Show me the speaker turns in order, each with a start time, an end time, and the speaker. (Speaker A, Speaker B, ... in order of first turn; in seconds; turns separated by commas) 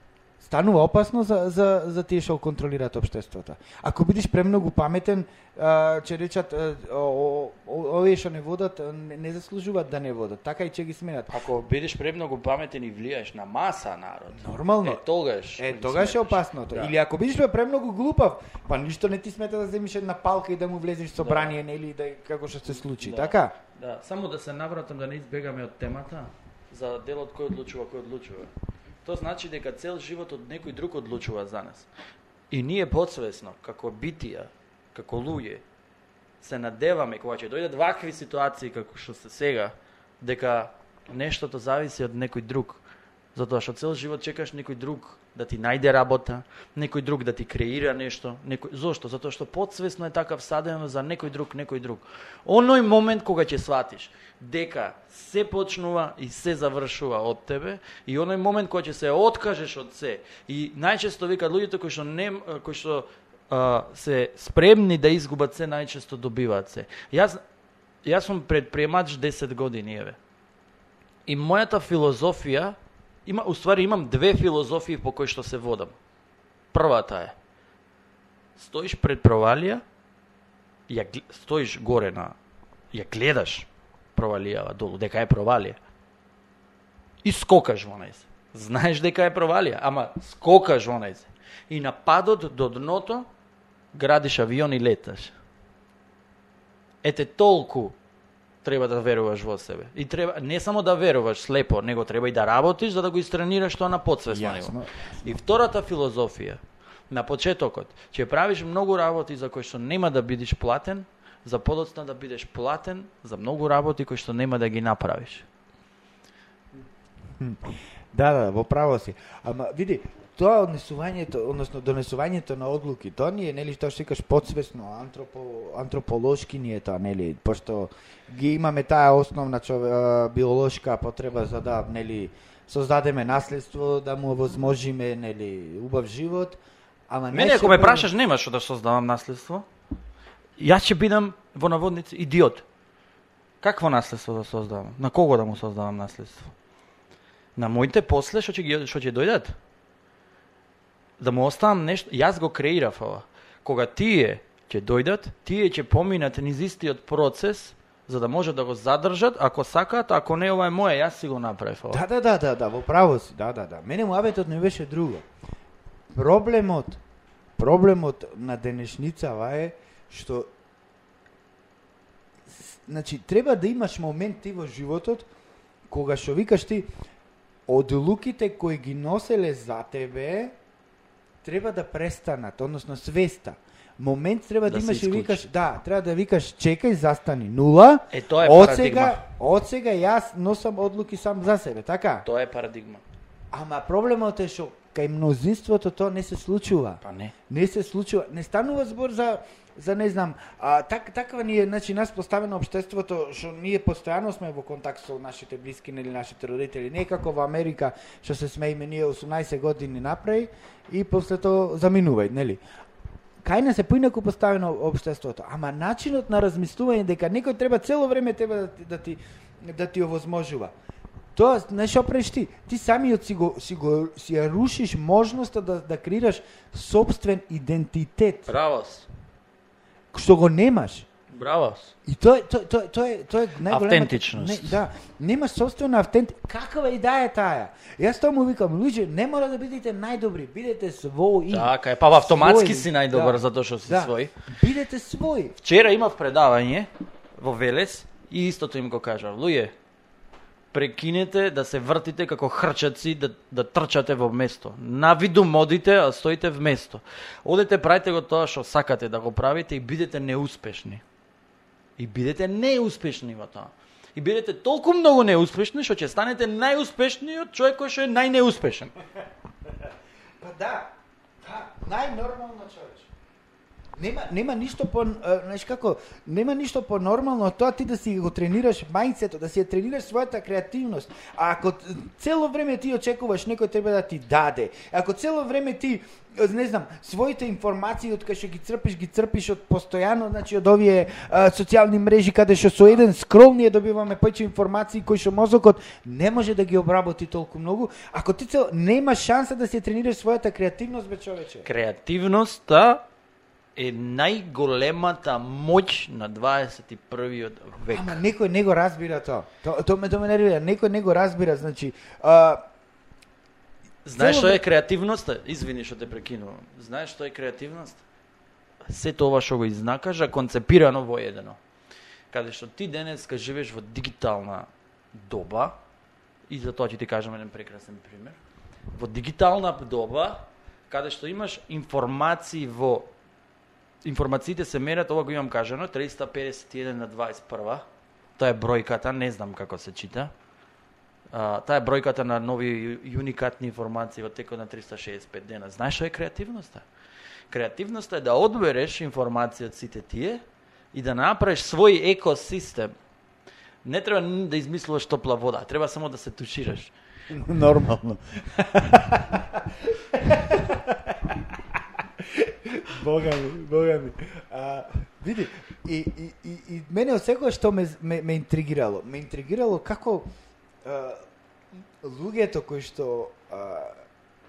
Speaker A: 0.4-11.3, Speaker B: 11.3-16.9, Speaker A: 14.3-15.0, Speaker A: 15.6-23.5, Speaker B: 21.2-21.5, Speaker B: 22.9-28.5, Speaker B: 29.0-31.9, Speaker B: 32.5-35.6, Speaker B: 36.4-42.8, Speaker B: 43.3-67.4, Speaker B: 68.0-70.2, Speaker B: 71.2-76.0, Speaker B: 76.7-77.3, Speaker B: 78.5-79.8, Speaker B: 80.9-82.3, Speaker B: 82.9-85.8, Speaker B: 87.2-93.3, Speaker B: 93.9-95.3, Speaker B: 97.0-97.9, Speaker B: 98.6-115.5, Speaker A: 104.3-105.2, Speaker A: 117.4-136.6, Speaker A: 137.1-138.1, Speaker B: 137.3-139.7, Speaker B: 140.6-142.6, Speaker B: 143.6-146.5, Speaker B: 147.6-149.5, Speaker B: 151.2-162.0, Speaker A: 161.9-165.2, Speaker A: 166.1-167.0, Speaker A: 167.6-170.5, Speaker A: 172.5-175.3, Speaker A: 175.9-176.9, Speaker A: 177.7-180.5, Speaker A: 181.4-192.2, Speaker B: 184.7-185.5, Speaker B: 188.1-189.2, Speaker B: 192.2-193.0, Speaker A: 193.5-212.6, Speaker B: 197.0-197.3, Speaker A: 213.4-220.7, Speaker A: 221.3-228.5, Speaker B: 228.5-229.1, Speaker A: 230.1-231.1, Speaker B: 231.3-231.9, Speaker A: 232.0-245.6, Speaker B: 233.7-234.8, Speaker B: 241.5-244.3, Speaker B: 245.6-249.7, Speaker B: 250.7-261.0, Speaker B: 262.0-268.9, Speaker A: 270.4-273.1, Speaker A: 274.0-301.7, Speaker B: 301.6-303.0, Speaker B: 303.8-308.2, Speaker A: 307.9-312.6, Speaker B: 314.0-318.0, Speaker A: 314.2-314.6, Speaker B: 318.9-321.6, Speaker B: 322.3-325.8, Speaker B: 326.5-328.4, Speaker B: 328.9-333.1, Speaker B: 334.0-337.9, Speaker B: 338.4-340.3, Speaker B: 341.3-346.9, Speaker B: 347.5-350.4, Speaker B: 350.9-352.9, Speaker B: 353.8-356.9, Speaker A: 357.3-370.3, Speaker A: 370.8-371.2, Speaker A: 372.0-374.0